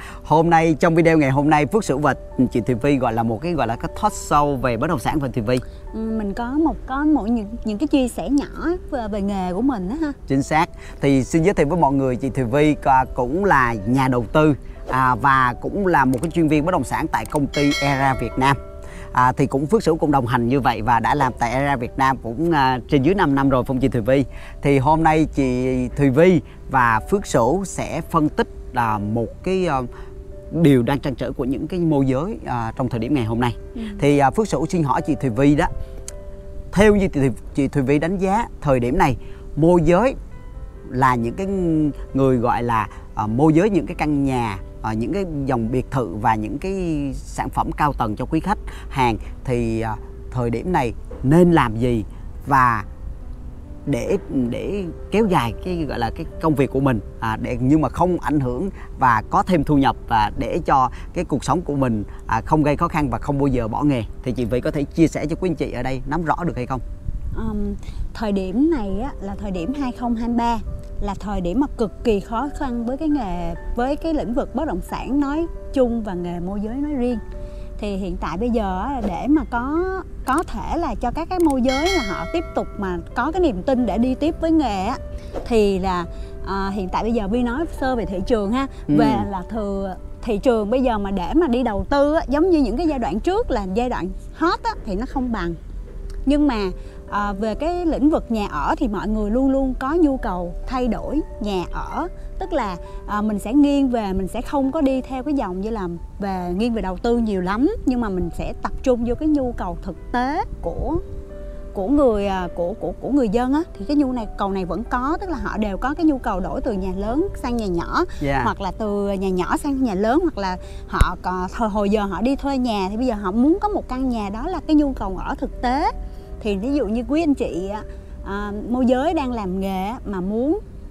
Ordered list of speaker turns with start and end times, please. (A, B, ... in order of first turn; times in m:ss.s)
0:00.2-0:05.6 A
0:05.9-0:10.2 B
0:10.3-0:18.6 A
0:19.1-0:29.9 A
0:30.5-0:35.7 A
0:36.7-0:40.2 A
0:40.9-0:52.9 A
0:53.9-1:06.8 A
1:07.3-1:17.2 B
1:17.8-1:35.6 B
1:28.9-1:29.3 A
1:36.3-1:51.0 B
1:51.7-2:10.6 B
1:58.2-1:58.5 A